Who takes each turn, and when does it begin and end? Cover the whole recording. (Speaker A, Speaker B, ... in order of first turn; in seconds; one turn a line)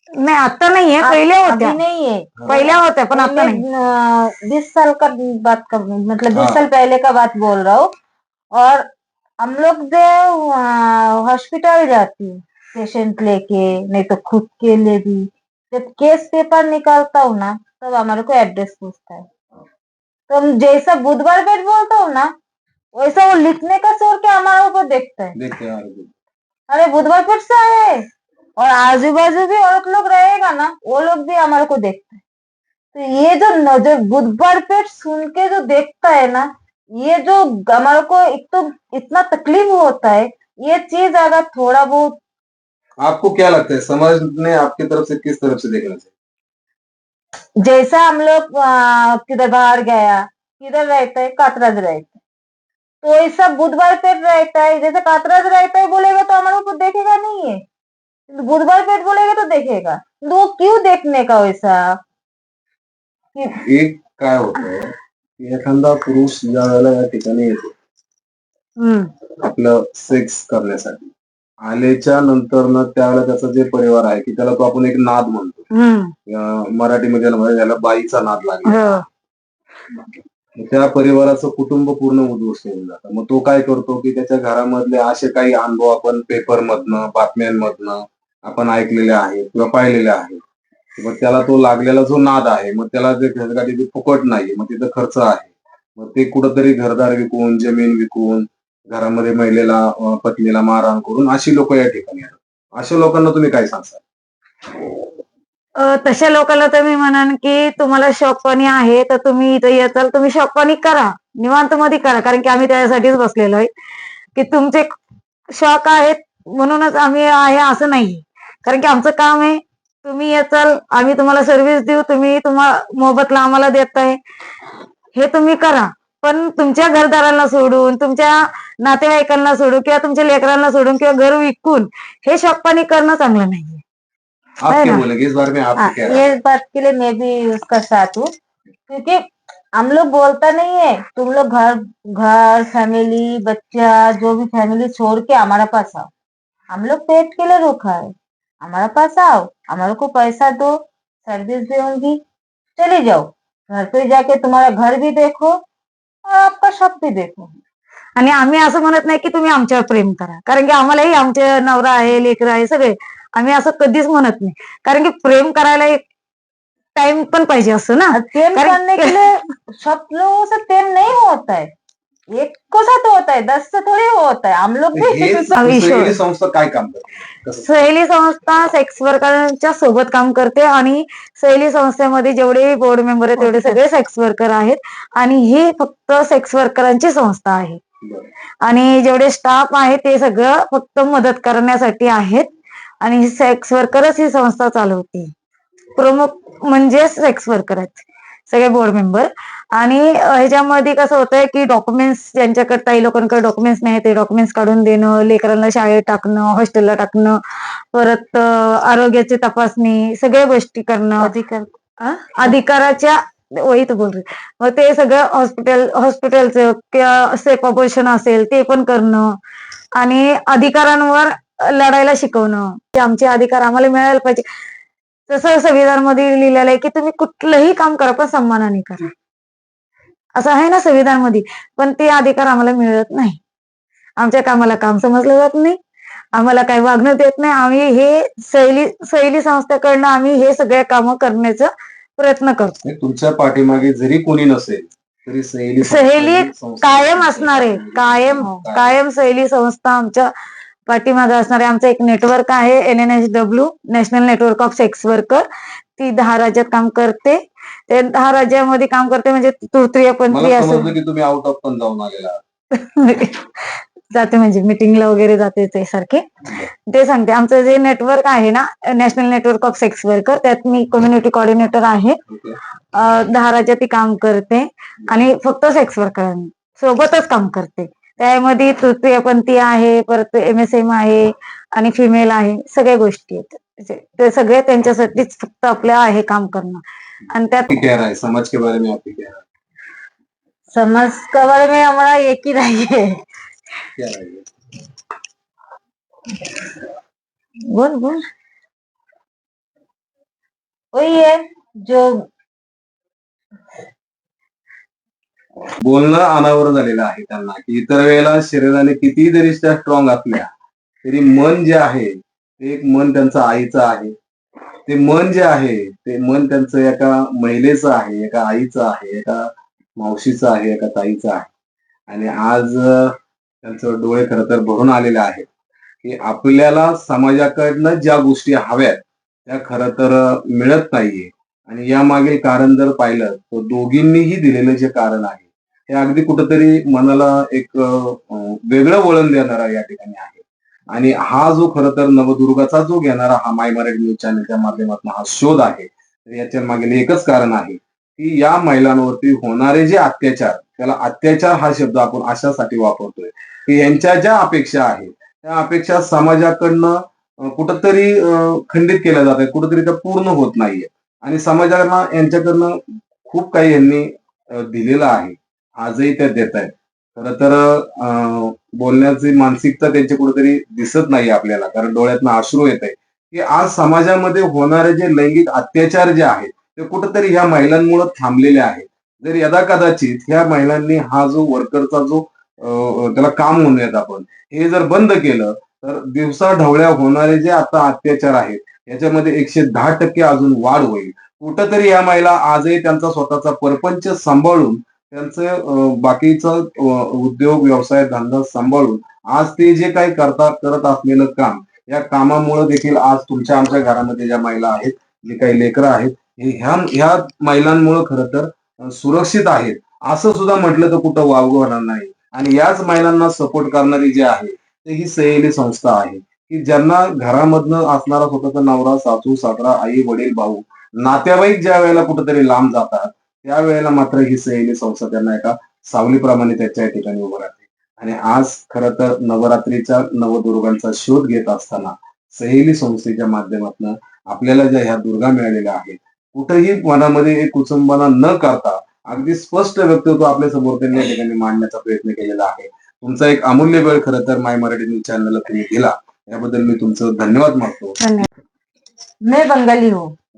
Speaker A: 0.2-1.8
Speaker B: 1.0-7.9
Speaker C: 2.4-2.7
Speaker A: 2.5-3.6
Speaker C: 6.3-6.6
Speaker B: 8.5-8.9
Speaker B: 9.4-19.3
Speaker B: 20.3-22.3
Speaker B: 22.9-25.4
Speaker C: 25.4-26.1
Speaker B: 26.7-28.1
Speaker B: 28.6-32.2
Speaker B: 32.9-42.2
Speaker C: 43.0-46.1
Speaker B: 47.6-52.2
Speaker B: 53.0-57.6
Speaker B: 58.3-62.0
Speaker C: 63.6-67.7
Speaker A: 68.8-69.1
Speaker C: 69.4-75.7
Speaker A: 75.7-76.1
Speaker C: 76.3-79.0
Speaker A: 78.6-79.0
Speaker C: 80.5-90.4
Speaker C: 91.0-104.0
Speaker A: 105.8-113.7
Speaker A: 114.3-114.9
Speaker A: 115.5-124.2
Speaker A: 125.1-133.8
Speaker C: 134.6-136.3
Speaker A: 134.7-135.0
Speaker B: 135.8-138.3
Speaker B: 138.9-139.2
Speaker B: 139.8-146.1
Speaker B: 146.7-152.2
Speaker B: 152.8-155.6
Speaker B: 156.2-157.6
Speaker A: 158.2-166.0
Speaker A: 166.9-169.2
Speaker B: 168.1-171.7
Speaker B: 172.3-175.6
Speaker C: 174.9-177.7
Speaker A: 175.6-176.2
Speaker A: 177.6-187.8
Speaker B: 183.4-183.8
Speaker C: 188.0-188.3
Speaker A: 188.6-192.5
Speaker A: 193.0-195.3
Speaker A: 195.9-207.4
Speaker A: 207.9-211.3
Speaker B: 211.2-211.7
Speaker A: 212.0-219.3
Speaker A: 220.0-224.4
Speaker A: 225.3-229.1
Speaker A: 230.3-233.4
Speaker A: 234.2-235.8
Speaker A: 236.3-242.8
Speaker C: 242.8-249.0
Speaker A: 245.8-250.3
Speaker A: 250.9-255.4
Speaker A: 256.0-260.9
Speaker C: 260.3-262.4
Speaker A: 262.7-266.3
Speaker A: 266.9-272.2
Speaker C: 272.3-272.6
Speaker A: 272.9-287.7
Speaker C: 287.7-289.4
Speaker B: 290.7-293.2
Speaker C: 293.9-294.5
Speaker A: 297.7-298.2
Speaker B: 300.9-302.2
Speaker C: 305.8-310.5
Speaker C: 311.0-314.1
Speaker C: 314.9-321.5
Speaker C: 322.1-325.5
Speaker C: 326.0-448.0
Speaker A: 448.0-448.3
Speaker B: 449.2-450.1